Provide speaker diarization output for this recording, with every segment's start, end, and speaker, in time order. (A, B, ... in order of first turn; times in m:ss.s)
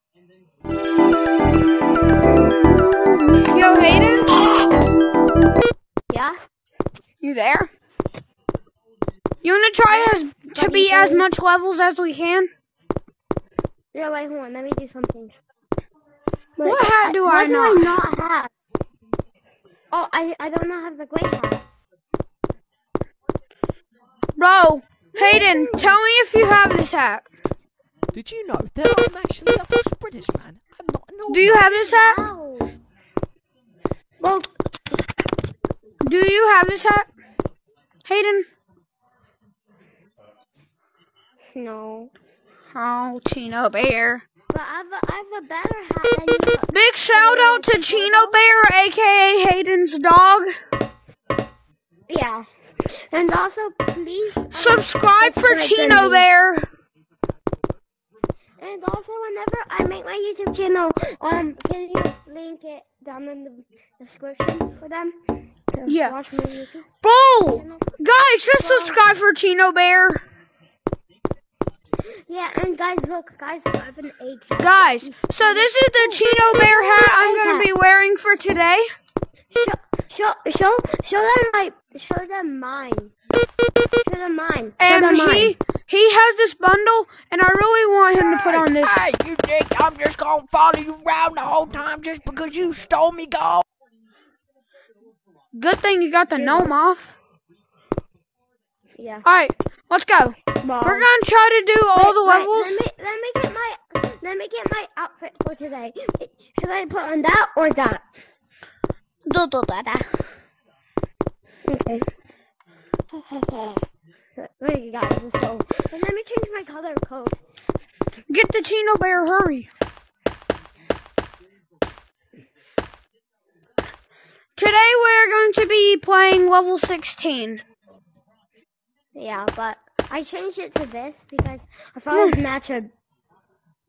0:03.4-0:04.4 A
0:07.2-0:07.7 A
0:09.4-0:12.5 A
0:09.9-0:11.3 B
0:13.9-0:15.3 B
0:16.6-0:18.5 B
0:16.6-0:18.0 A
0:19.9-0:21.6 B
0:24.4-0:27.3 A
0:25.1-0:26.0 B
0:28.1-0:31.6 C
0:31.3-0:32.2 A
0:31.6-0:32.7 B
0:34.2-0:34.5 B
0:36.0-0:37.1 A
0:38.0-0:38.5 A
0:41.6-0:42.1 B
0:42.7-0:44.2 A
0:44.5-0:48.4 B
0:46.7-0:50.5 A
0:52.1-0:52.4 B
0:53.0-0:56.3 B
0:54.5-0:56.7 A
0:58.6-1:05.2 B
1:05.7-1:06.9 B
1:05.9-1:06.1 A
1:07.0-1:10.2 A
1:07.5-1:07.9 B
1:08.6-1:09.1 B
1:12.2-1:17.7 B
1:14.6-1:18.9 A
1:19.5-1:23.1 B
1:24.0-1:25.6 B
1:24.8-1:29.0 A
1:28.2-1:33.6 C
1:35.5-1:37.2 A
1:36.4-1:36.7 B
1:39.0-1:39.3 B
1:39.2-1:42.8 A
1:40.6-1:41.1 B
1:41.9-1:48.0 B
1:49.3-1:50.1 A
1:51.7-1:52.1 B
1:53.1-1:53.8 B
1:54.4-1:57.4 B
1:58.3-1:59.7 A
2:04.6-2:07.6 A
2:09.2-2:12.9 B
2:12.1-2:12.4 A